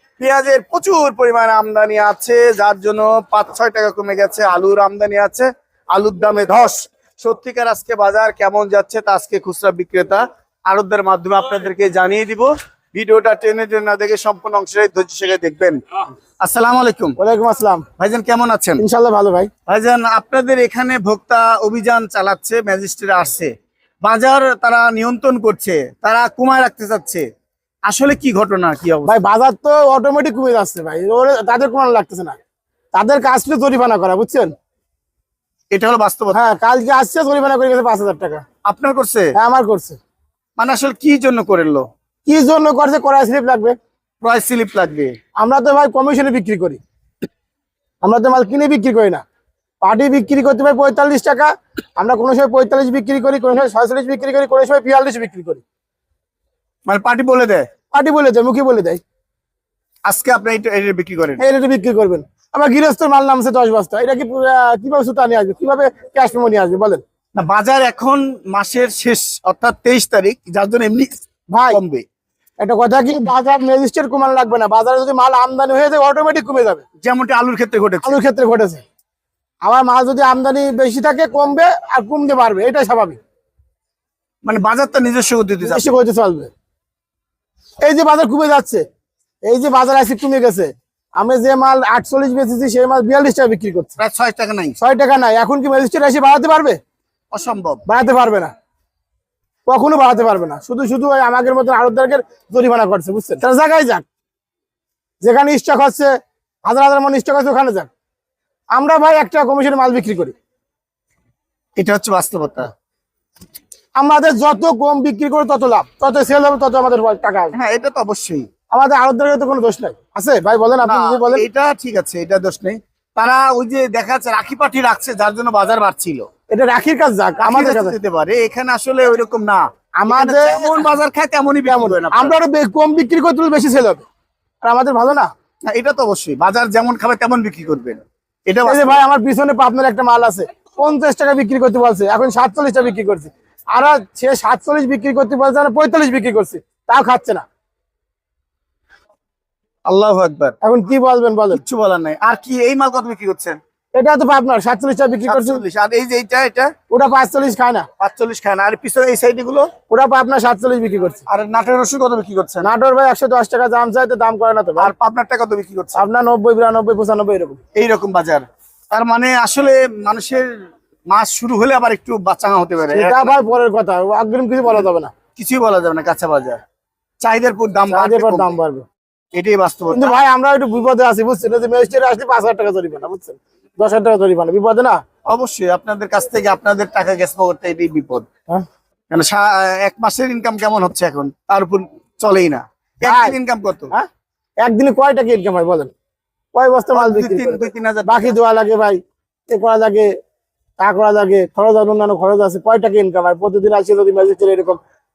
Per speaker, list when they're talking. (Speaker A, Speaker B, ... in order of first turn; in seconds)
Speaker A: 0.2-15.8, 16.4-17.2, 18.0-18.8, 19.7-27.2, 27.9-29.2, 35.7-36.4, 38.6-39.3, 40.6-41.9, 44.2-45.2, 56.9-57.6, 60.0-61.4, 67.3-72.0, 77.0-78.2, 84.4-85.8, 94.0-94.8, 97.3-97.8, 111.8-112.7, 117.5-118.5, 120.8-126.3, 127.4-132.3, 135.7-139.0, 149.8-150.6, 151.5-153.6, 155.3-156.7, 158.0-159.7, 161.3-162.7, 164.8-166.0, 167.7-170.5, 171.1-173.3, 175.3-176.6, 177.2-178.6, 179.3-180.2, 185.3-188.3, 189.1-193.9, 196.9-198.3
Speaker B: 17.2-17.9, 18.8-19.5, 29.1-32.4, 32.9-34.5, 36.3-38.4, 39.3-40.0, 42.2-43.7, 45.4-46.8, 48.0-49.2, 49.8-55.6, 57.9-59.0, 61.4-67.0, 71.5-71.8, 72.6-76.8, 78.0-78.8, 79.6-83.2, 85.6-86.5, 87.8-88.8, 89.4-94.0, 94.8-96.8, 97.8-98.5, 99.7-104.0, 105.2-106.1, 106.6-107.9, 108.7-110.3, 113.9-117.5, 118.7-121.4, 126.5-128.0, 130.0-130.8, 131.7-134.0, 134.6-135.3, 138.6-147.4, 150.6-151.6, 153.9-155.6, 156.9-157.9, 159.9-161.2, 162.6-164.9, 165.9-167.6, 172.9-175.1, 177.9-178.8, 179.9-185.0, 193.0-193.3, 194.6-195.9, 196.5-200.1, 200.8-204.8